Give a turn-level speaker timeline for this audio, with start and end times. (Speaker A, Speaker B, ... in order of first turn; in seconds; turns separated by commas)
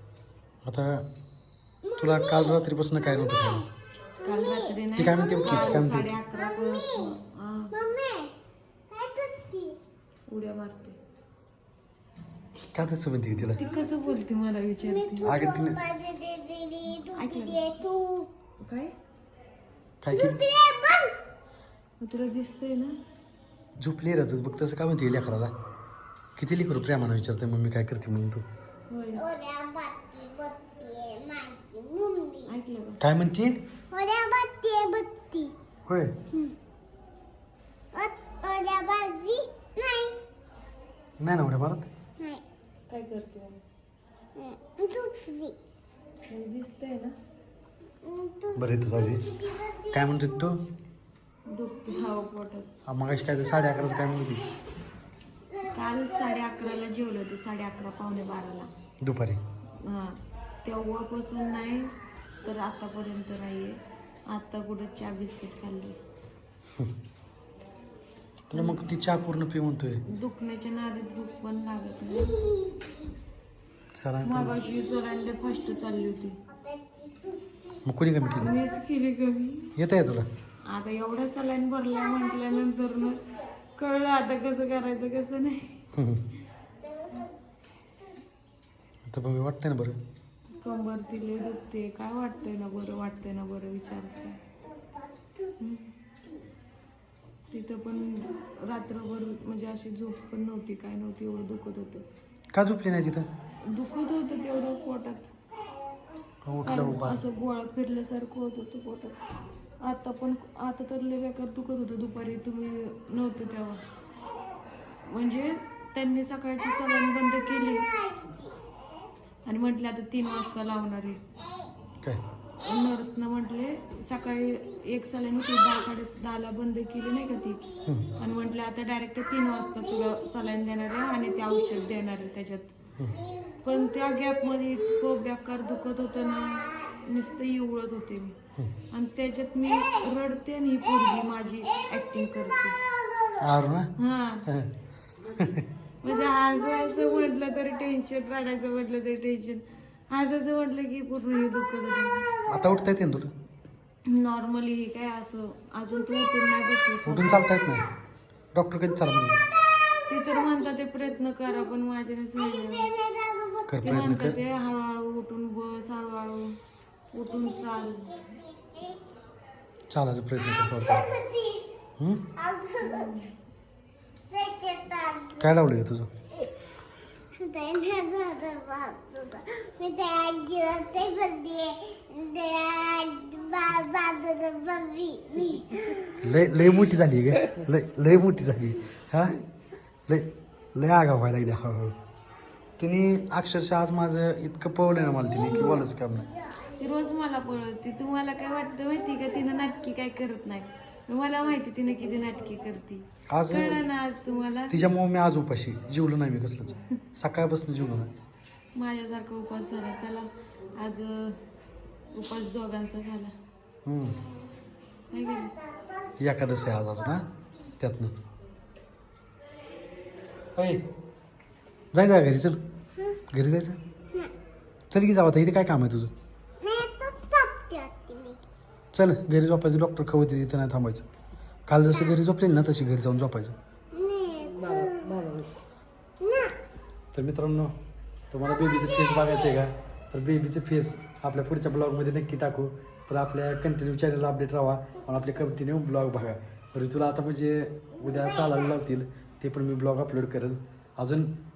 Speaker A: 0.6-1.1, Speaker B: 1.8-3.6, Speaker A: 2.0-3.6, Speaker B: 4.2-7.2, Speaker C: 4.2-7.8, Speaker A: 5.0-6.1, Speaker B: 7.7-8.3, Speaker B: 8.9-9.8, Speaker C: 10.3-11.0, Speaker A: 12.7-13.6, Speaker C: 13.5-15.3, Speaker B: 13.6-14.0, Speaker B: 14.8-18.3, Speaker A: 15.2-15.8, Speaker C: 17.1-17.8, Speaker C: 18.6-18.9, Speaker A: 20.0-20.4, Speaker B: 20.1-21.1, Speaker C: 22.0-23.0, Speaker A: 23.8-25.5, Speaker A: 26.4-28.4, Speaker C: 28.9-29.2, Speaker B: 29.1-32.5, Speaker C: 32.5-33.0, Speaker A: 33.0-33.5, Speaker B: 33.9-35.5, Speaker A: 35.9-36.1, Speaker B: 37.9-40.2, Speaker A: 41.2-41.9, Speaker C: 42.9-43.6, Speaker B: 44.4-45.6, Speaker C: 46.3-47.1, Speaker B: 48.0-50.3, Speaker A: 48.5-49.2, Speaker A: 49.9-50.6, Speaker C: 51.5-52.7, Speaker A: 52.9-54.5, Speaker B: 55.5-56.5, Speaker C: 55.7-58.7, Speaker A: 59.0-59.4, Speaker C: 59.7-66.0, Speaker A: 68.5-70.0, Speaker C: 68.5-68.9, Speaker C: 70.1-72.5, Speaker B: 72.3-72.9, Speaker A: 74.0-74.6, Speaker C: 74.2-76.4, Speaker B: 76.5-78.7, Speaker A: 77.8-78.6, Speaker C: 78.4-79.8, Speaker A: 79.8-80.3, Speaker C: 80.7-85.9, Speaker A: 85.9-86.2, Speaker B: 86.8-87.3, Speaker A: 89.1-90.0, Speaker C: 90.5-94.4, Speaker B: 94.6-95.6, Speaker C: 95.6-95.9, Speaker C: 97.5-102.0, Speaker A: 102.5-103.3, Speaker C: 103.6-105.3, Speaker B: 104.2-104.7, Speaker B: 105.7-106.1, Speaker A: 106.4-107.2, Speaker C: 106.6-109.2, Speaker C: 109.8-113.8, Speaker C: 115.0-117.9, Speaker B: 117.0-118.6, Speaker C: 119.4-121.2, Speaker C: 122.6-132.7, Speaker A: 127.8-128.1, Speaker B: 131.5-131.8, Speaker B: 133.1-134.8, Speaker C: 133.6-138.4, Speaker C: 138.9-142.8, Speaker B: 142.7-143.6, Speaker A: 143.4-143.9, Speaker C: 144.0-144.5, Speaker A: 144.4-144.7, Speaker A: 145.2-145.7, Speaker C: 146.0-152.3, Speaker B: 146.1-147.7, Speaker B: 152.0-152.9, Speaker A: 152.5-153.3, Speaker C: 154.1-157.4, Speaker A: 157.0-157.9, Speaker A: 158.5-159.4, Speaker B: 159.7-160.5, Speaker C: 160.1-162.9, Speaker B: 162.4-164.2, Speaker A: 163.7-164.4, Speaker C: 163.8-166.6, Speaker C: 167.1-168.2, Speaker B: 167.3-169.0, Speaker A: 169.9-171.1, Speaker B: 170.4-171.8, Speaker A: 172.0-172.3, Speaker B: 172.3-173.2, Speaker C: 172.8-173.3, Speaker B: 174.3-175.5, Speaker A: 175.4-176.1, Speaker B: 177.3-186.4, Speaker A: 186.2-189.4, Speaker A: 190.1-191.9, Speaker A: 192.8-196.3, Speaker C: 195.5-195.8, Speaker B: 196.4-196.8, Speaker C: 196.7-204.8, Speaker A: 203.3-203.8, Speaker A: 204.7-208.1, Speaker C: 208.7-211.4, Speaker C: 212.1-213.3, Speaker A: 213.8-214.2, Speaker C: 215.1-215.5, Speaker B: 215.2-216.2, Speaker A: 216.2-217.2, Speaker A: 217.8-218.1, Speaker A: 220.6-220.8, Speaker A: 221.9-222.6, Speaker A: 223.3-223.8, Speaker A: 224.9-226.1, Speaker B: 226.6-228.4, Speaker A: 228.9-231.0, Speaker A: 231.7-233.6, Speaker B: 233.9-235.3, Speaker B: 236.2-236.5, Speaker A: 237.1-237.7, Speaker A: 238.3-251.3, Speaker B: 238.4-239.6, Speaker B: 248.0-248.5